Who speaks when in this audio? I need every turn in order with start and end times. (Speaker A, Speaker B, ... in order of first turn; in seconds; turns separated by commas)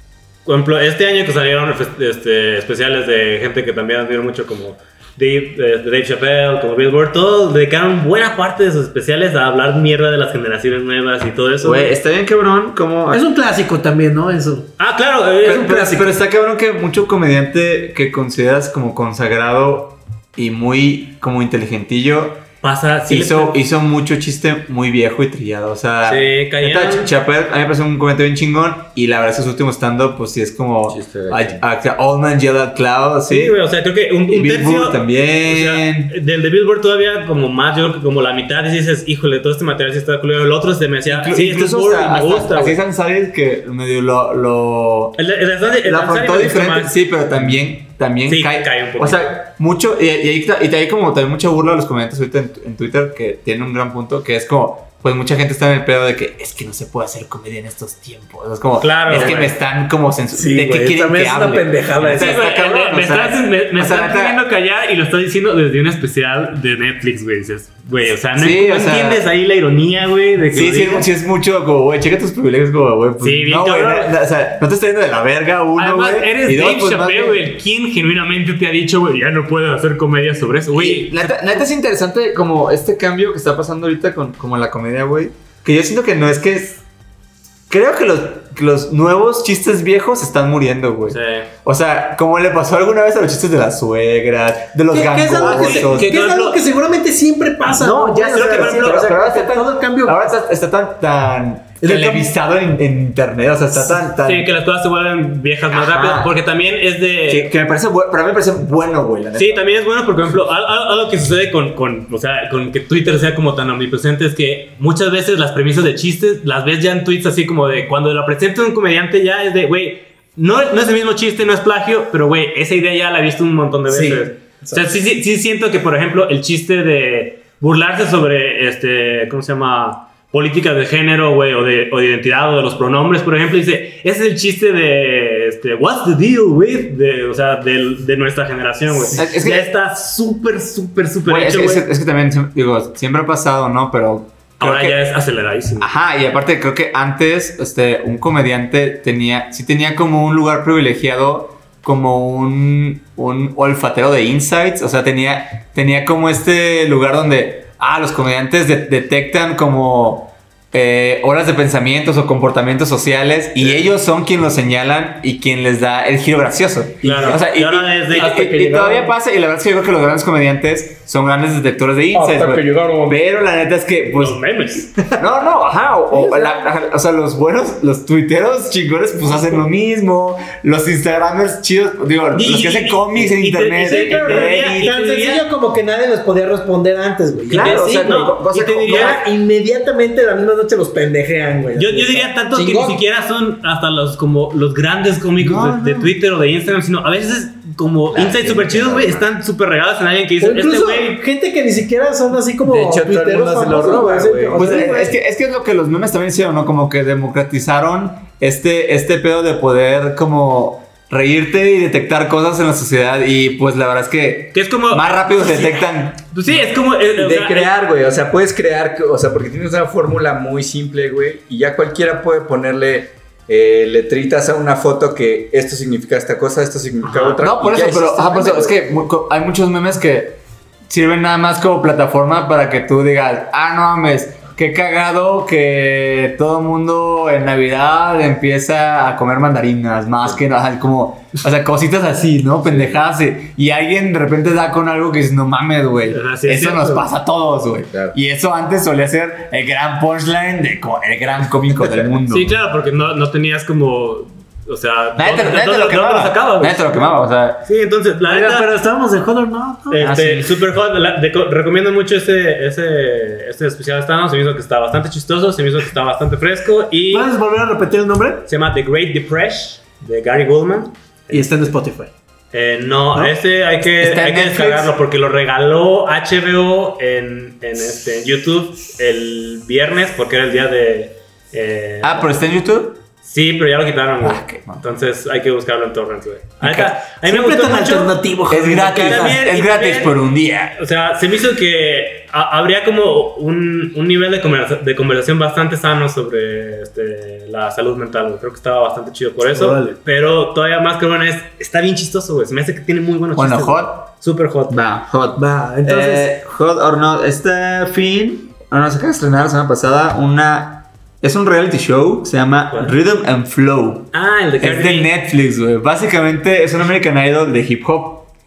Speaker A: 0.4-11.9, Speaker B: 11.6-13.2, Speaker C: 13.1-14.7, Speaker A: 14.8-16.1, Speaker B: 15.4-22.4, Speaker A: 22.6-23.6, Speaker B: 23.1-33.6, Speaker A: 26.0-27.1, Speaker D: 30.9-31.6, Speaker A: 33.3-42.8, Speaker B: 34.3-36.1, Speaker B: 41.1-45.2, Speaker A: 45.2-47.0, Speaker B: 45.8-64.4, Speaker A: 48.3-49.4, Speaker A: 58.8-59.5, Speaker C: 60.3-62.4, Speaker A: 62.0-71.1, Speaker B: 68.4-69.2, Speaker B: 70.5-77.5, Speaker A: 73.2-74.1, Speaker A: 75.8-81.3, Speaker B: 80.7-86.8, Speaker B: 87.7-96.1, Speaker A: 91.1-91.5, Speaker C: 94.9-100.3, Speaker A: 95.3-96.6, Speaker B: 97.7-104.5, Speaker A: 98.3-99.1, Speaker C: 101.8-102.3, Speaker A: 104.2-107.5, Speaker B: 105.7-106.3, Speaker B: 107.3-109.7, Speaker A: 109.3-141.9, Speaker B: 123.9-124.2, Speaker C: 124.6-125.0, Speaker B: 139.1-139.7, Speaker B: 141.3-145.0, Speaker A: 144.6-145.9, Speaker B: 145.8-184.9, Speaker A: 167.0-169.1, Speaker C: 167.1-167.4, Speaker C: 168.3-168.9, Speaker C: 172.1-173.2, Speaker A: 174.1-174.9, Speaker C: 176.1-176.7, Speaker A: 182.3-185.4, Speaker C: 183.8-192.9, Speaker B: 187.5-189.2, Speaker A: 187.5-189.2, Speaker A: 191.8-201.2, Speaker D: 192.6-192.9, Speaker B: 195.4-196.1, Speaker D: 198.1-199.2, Speaker C: 200.4-205.1, Speaker D: 202.6-204.9, Speaker B: 204.5-216.5, Speaker A: 214.5-217.7, Speaker D: 217.2-228.8, Speaker A: 227.0-227.4, Speaker B: 227.4-252.5, Speaker A: 246.1-247.1, Speaker D: 247.9-248.2, Speaker A: 252.3-257.1, Speaker B: 255.2-257.6, Speaker A: 257.6-258.7, Speaker C: 258.2-260.1, Speaker A: 259.9-267.3, Speaker B: 260.0-260.6, Speaker C: 267.1-268.5, Speaker A: 268.5-271.7, Speaker C: 271.3-272.1, Speaker A: 272.5-282.4, Speaker B: 274.0-274.9, Speaker B: 282.0-283.0, Speaker A: 283.2-288.1, Speaker B: 284.2-284.8, Speaker B: 286.6-286.9, Speaker C: 287.2-289.4, Speaker B: 288.5-290.8, Speaker A: 288.9-290.1, Speaker A: 290.8-304.8, Speaker C: 299.4-300.0, Speaker B: 303.3-304.1, Speaker B: 304.7-318.3, Speaker C: 305.4-306.3, Speaker A: 312.7-313.0, Speaker A: 314.1-315.1